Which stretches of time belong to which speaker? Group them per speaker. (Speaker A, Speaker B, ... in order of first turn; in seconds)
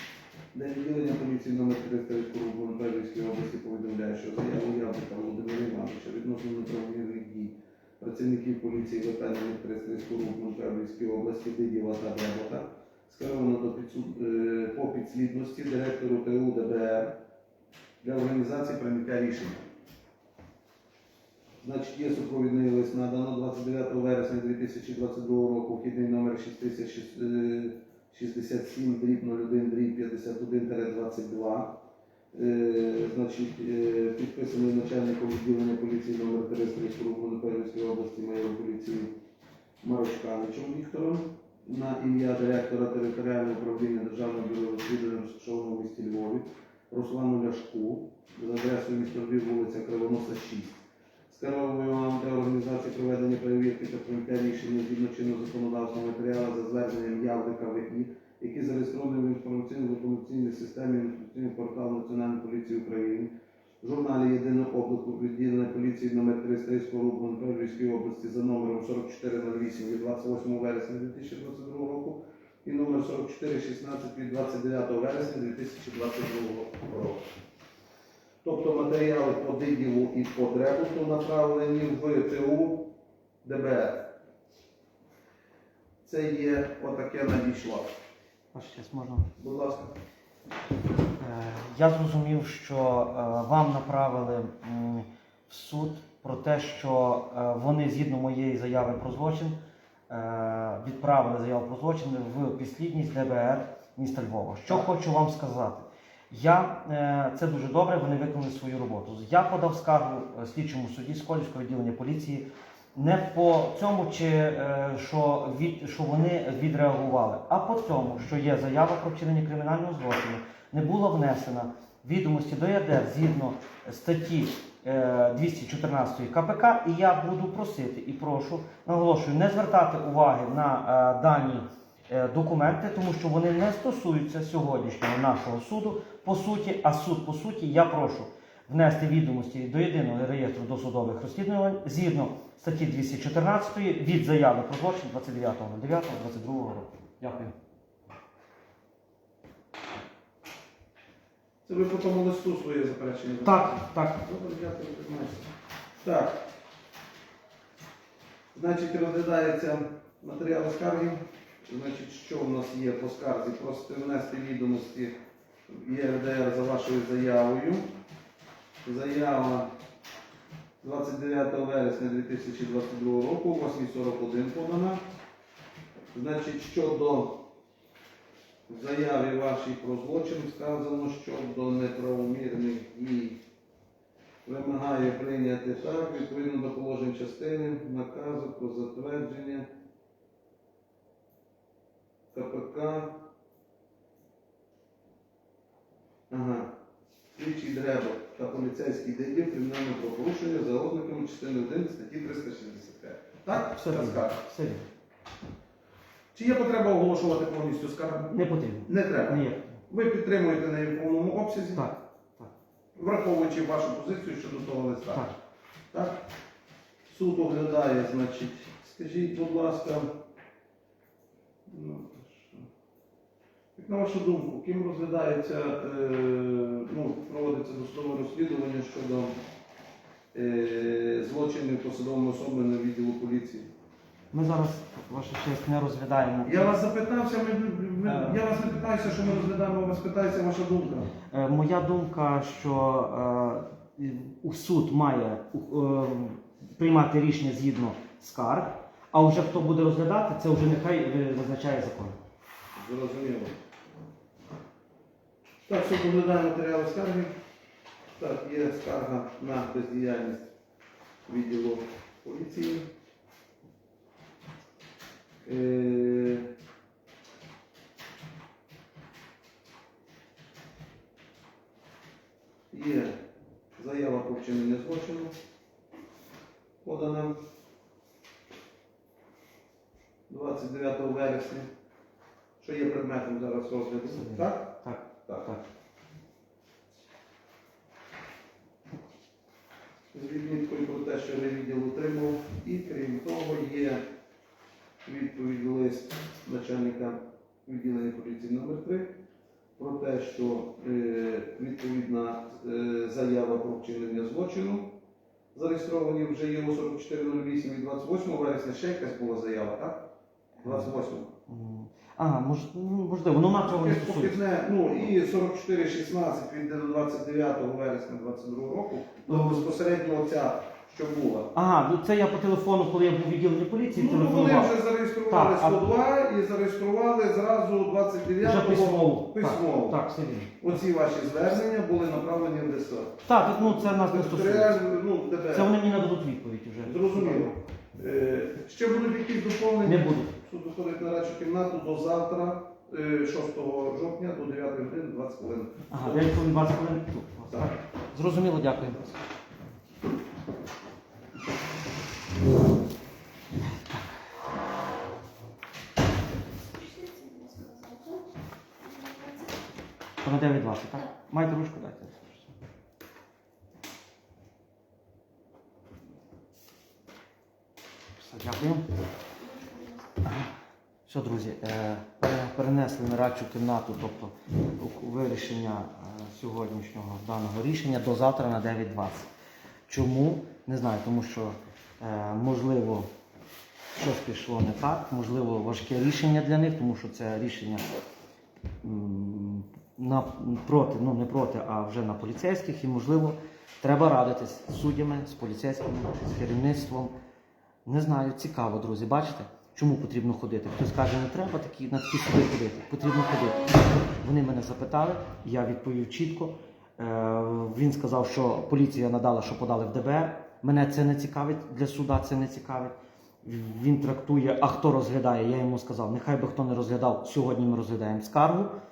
Speaker A: 0.5-17.1, 18.0-19.6, 21.6-31.8, 32.3-39.1, 39.8-63.3, 63.8-77.2, 78.4-82.9, 83.4-84.1, 86.0-87.9, 89.4-89.9, 151.6-156.4, 158.5-165.1, 165.7-167.9, 168.8-169.7, 170.8-175.0, 176.1-177.4, 178.7-183.4, 184.4-189.7, 192.3-193.2, 196.3-196.7, 197.3-204.4, 206.3-208.3, 208.9-211.8, 212.9-215.3, 215.9-216.2, 217.1-220.1, 221.7-222.7, 223.8-229.3, 230.3-233.7, 236.4-241.1, 252.7-253.6, 255.7-257.3, 258.1-260.5, 261.3-262.9, 265.4-266.5, 272.7-273.2, 273.8-275.3, 276.8-277.4, 280.3-281.7, 282.6-284.8, 290.1-294.0, 295.0-299.1, 299.8-304.9, 305.5-310.1, 310.6-311.3, 313.6-321.5, 323.9-330.0, 330.6-335.7, 336.8-346.3
Speaker B: 88.5-89.3, 91.2-99.6, 100.1-147.5, 153.4-154.2, 203.5-204.9, 208.3-209.8, 211.7-212.5, 234.3-236.8, 238.0-238.4, 241.3-252.2, 284.1-285.6, 310.6-310.9, 311.5-314.4, 319.3-319.7, 321.5-325.9, 328.4-330.6, 333.2-334.8, 335.5-337.5, 339.8-340.3, 345.9-349.2, 360.2-362.5, 368.1-368.8, 370.2-370.5, 371.1-379.3, 379.9-383.1, 383.9-387.8, 388.8-397.1, 397.9-418.7
Speaker C: 356.7-358.3, 358.8-359.6, 369.4-370.1